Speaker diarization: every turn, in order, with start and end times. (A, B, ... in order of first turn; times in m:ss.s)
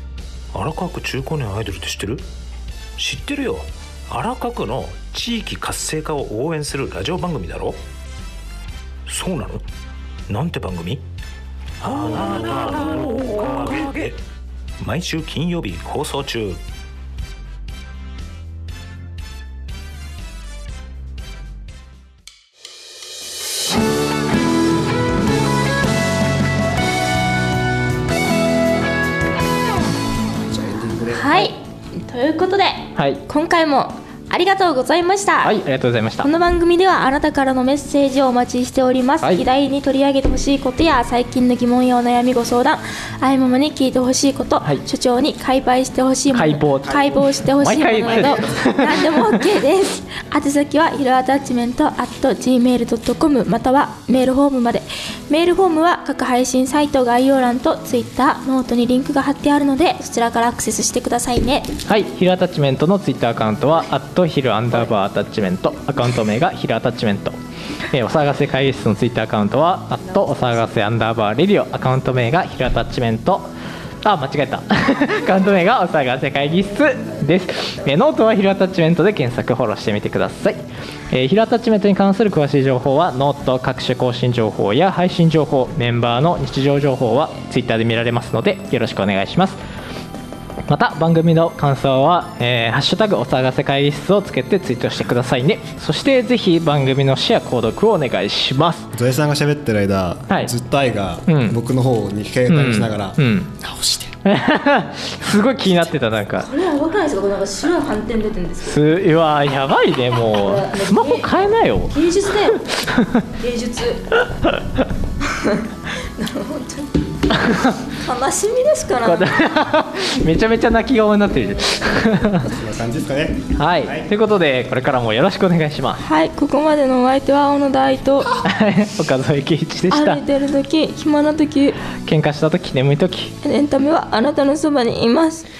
0:00.5-0:02.2 A
0:03.0-0:07.8 A
0:09.1-0:09.6 A
0:10.3-0:11.0 A
0:11.8-0:14.2 A
0:14.8-0:16.6 A
0:30.4-0:31.5 B
0:31.0-0:35.6 C
0:33.0-0:33.2 D
0:35.4-0:36.3 D
0:36.2-1:01.7 C
0:46.3-0:49.5 D
0:48.1-0:48.7 B
1:01.8-1:07.4 D
1:07.9-1:13.5 D
1:14.0-1:29.6 D
1:30.7-1:38.9 D
1:38.9-1:44.2 B
1:41.2-1:41.6 D
1:42.5-1:43.5 D
1:44.2-1:46.5 D
1:45.2-1:46.2 B
1:46.3-1:48.8 C
1:48.6-1:52.0 D
1:50.3-1:52.7 C
1:52.7-1:53.2 D
1:53.2-1:54.2 C
1:54.4-1:54.8 D
1:55.2-1:57.0 C
1:57.3-1:57.8 D
1:57.6-1:59.4 C
1:59.0-2:02.5 D
2:02.2-2:04.1 B
2:03.5-2:06.0 D
2:06.0-2:08.4 C
2:08.4-2:10.2 D
2:09.9-2:11.8 C
2:12.0-2:13.3 D
2:13.4-2:15.4 C